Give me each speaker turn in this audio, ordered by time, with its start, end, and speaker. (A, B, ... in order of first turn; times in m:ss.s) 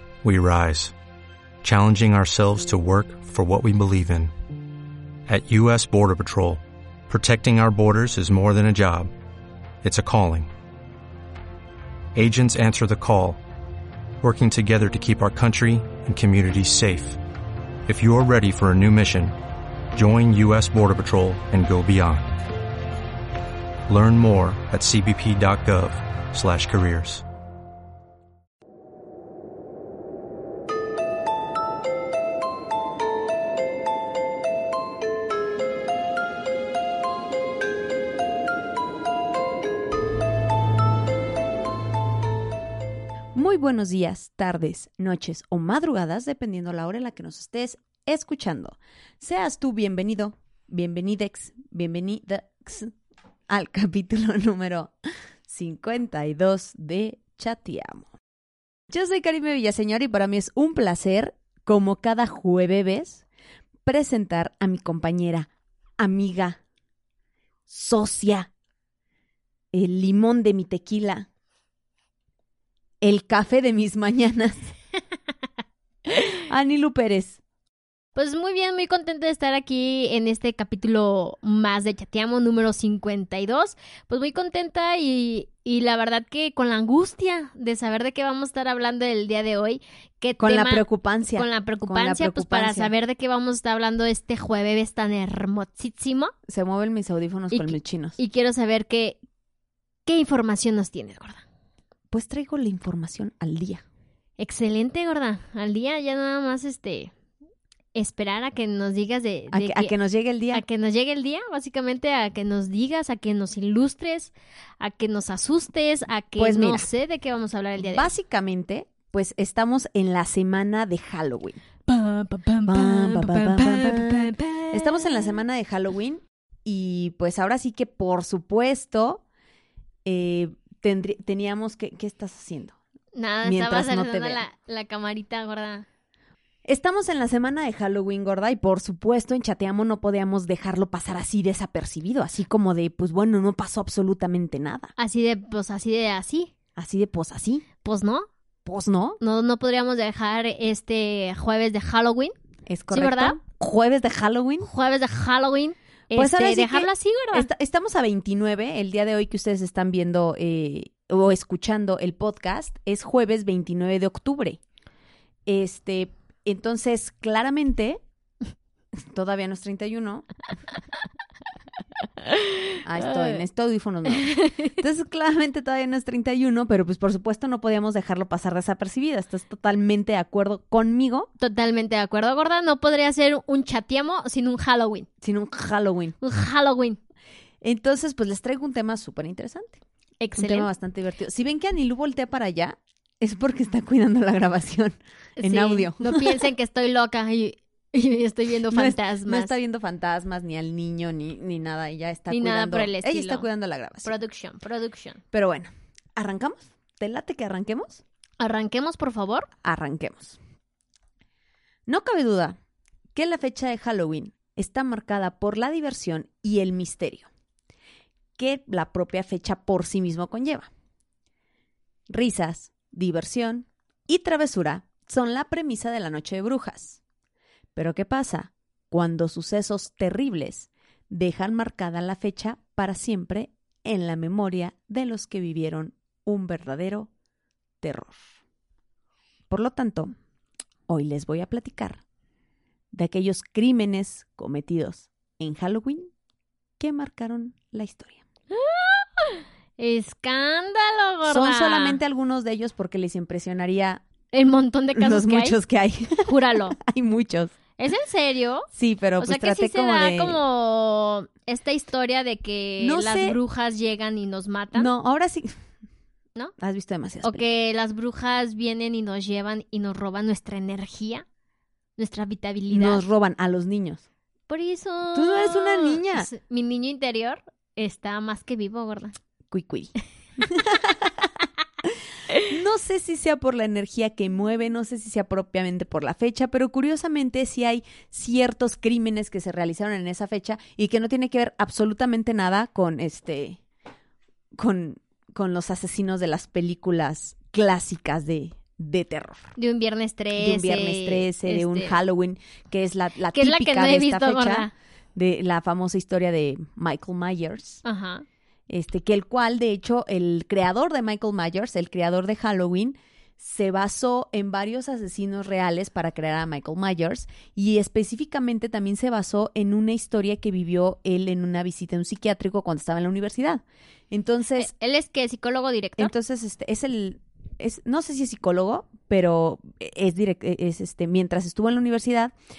0:00.2-0:00.9 A
0:01.6-0:04.3 A
0:05.3-0:09.1 A
0:09.8-0:10.5 A
0:12.1-0:13.4 A
0:14.2-0:17.2 A
0:17.8-0:19.3 A
0:19.9-0:22.4 A
0:23.9-0:27.2 A
0:43.3-0:52.9 B
0:53.5-0:54.9 B
0:55.5-0:58.1 B
0:58.9-1:03.2 B
1:03.8-1:06.6 B
1:07.7-1:08.5 B
1:09.7-1:11.3 B
1:13.0-1:14.7 B
1:16.4-1:17.4 B
1:18.1-1:30.8 C
1:30.4-1:32.9 B
1:31.4-1:36.3 C
1:36.5-1:38.2 B
1:37.5-1:39.2 C
1:40.0-1:41.4 C
1:42.1-1:43.8 B
1:44.4-1:47.1 C
1:47.9-1:49.9 C
1:49.5-1:50.6 B
1:50.5-1:58.1 C
1:56.4-1:56.9 B
1:57.8-2:01.6 B
2:01.9-2:05.3 C
2:02.6-2:09.2 B
2:10.0-2:12.8 B
2:13.1-2:15.8 C
2:13.4-2:14.4 B
2:16.6-2:24.9 B
2:25.0-2:26.5 C
2:26.8-2:27.6 B
2:27.8-2:28.3 C
2:28.6-2:29.2 B
2:29.2-2:32.3 C
2:32.7-2:34.7 B
2:32.9-2:33.4 C
2:34.6-2:37.5 C
2:36.1-2:44.6 B
2:45.4-2:48.0 B
2:48.9-2:50.3 B
2:52.3-2:53.4 C
2:52.8-3:01.3 B
2:54.1-2:54.7 C
3:01.4-3:05.1 C
3:05.2-3:06.2 B
3:06.2-3:07.0 C
3:07.6-3:09.8 B
3:10.2-3:10.7 C
3:10.4-3:16.4 B
3:15.4-3:19.5 C
3:18.7-3:24.1 B
3:22.3-3:23.4 C
3:24.0-3:25.2 C
3:25.3-3:28.0 B
3:28.4-3:29.5 C
3:29.6-3:30.4 B
3:31.9-3:32.6 B
3:33.1-3:37.3 B
3:38.4-3:40.7 B
3:42.1-3:47.0 B
3:47.8-3:57.1 B
3:57.8-3:58.2 B
3:59.5-4:00.1 B
4:00.9-4:02.0 B
4:02.9-4:06.1 B
4:06.8-4:08.2 B
4:08.5-4:12.0 C
4:11.3-4:14.0 B
4:14.3-4:15.6 C
4:14.9-4:17.6 B
4:16.2-4:16.8 C
4:17.8-4:24.9 C
4:18.7-4:20.4 B
4:22.8-4:23.4 B
4:24.7-4:25.6 B
4:26.6-4:27.4 B
4:27.2-4:31.2 C
4:32.0-4:33.0 C
4:32.7-4:34.0 B
4:34.5-4:39.1 C
4:35.1-4:36.3 B
4:39.5-4:41.3 B
4:42.5-4:53.6 B
4:54.6-4:59.5 B
4:59.6-5:02.0 C
5:00.4-5:07.8 B
5:03.3-5:04.7 C
5:07.8-5:08.2 C
5:08.7-5:24.7 B
5:24.6-5:26.1 C
5:26.0-5:32.3 B